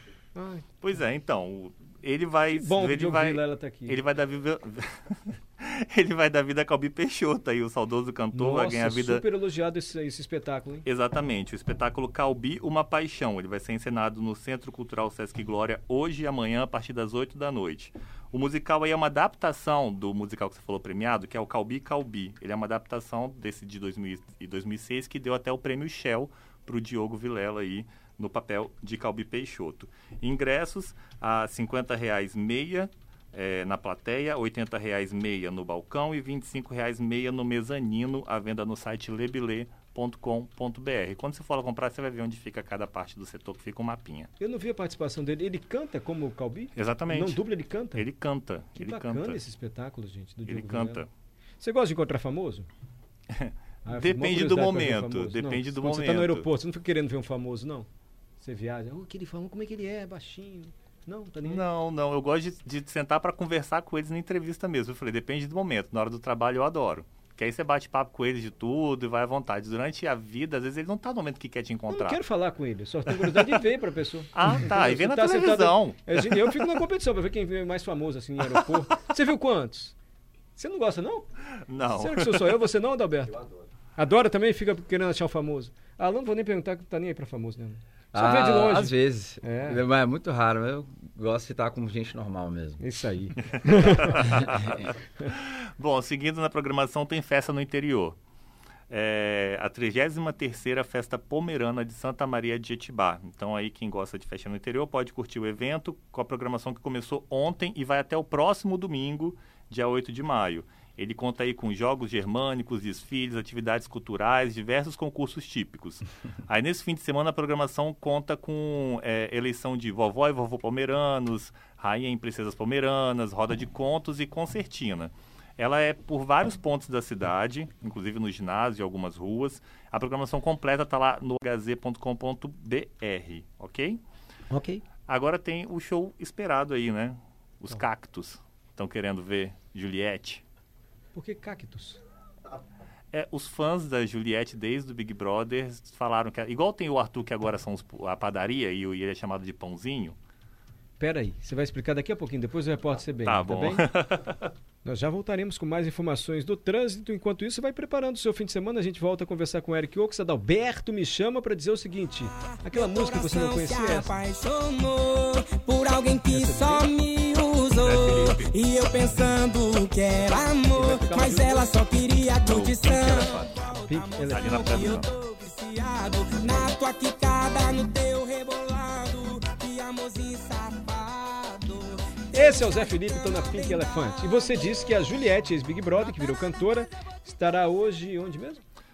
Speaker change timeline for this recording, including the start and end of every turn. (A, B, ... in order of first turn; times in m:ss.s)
0:00.3-0:00.6 A
0:00.8-0:09.2 B
0:02.5-0:04.0 A
0:08.3-0:10.8 A
0:10.8-0:44.3 B
0:44.4-0:48.0 A
0:46.7-0:47.4 B
0:47.9-0:49.4 B
0:48.8-0:51.0 A
0:50.4-0:51.1 B
0:51.6-0:52.7 A
0:53.3-0:56.5 B
0:53.8-0:57.9 A
0:58.4-1:01.7 A
1:01.4-1:12.2 B
1:11.9-1:19.9 A
1:13.1-1:13.6 B
1:14.3-1:16.6 B
1:20.5-1:21.2 A
1:21.6-1:22.5 B
1:21.9-1:23.4 A
1:24.0-1:29.8 A
1:28.1-1:32.8 C
1:32.8-1:34.3 A
1:33.9-1:38.2 B
1:34.3-1:34.8 C
1:38.9-2:14.0 B
2:14.5-2:14.8 A
2:15.1-2:20.4 B
2:21.1-2:22.0 A
2:23.1-2:30.2 B
2:31.0-2:33.8 A
2:33.2-2:34.5 B
2:34.8-2:44.2 A
2:42.5-3:04.2 D
2:46.3-2:46.9 A
2:47.7-2:48.5 B
2:50.5-2:51.7 A
2:52.4-2:55.1 B
2:53.8-2:54.8 A
3:02.3-3:08.6 A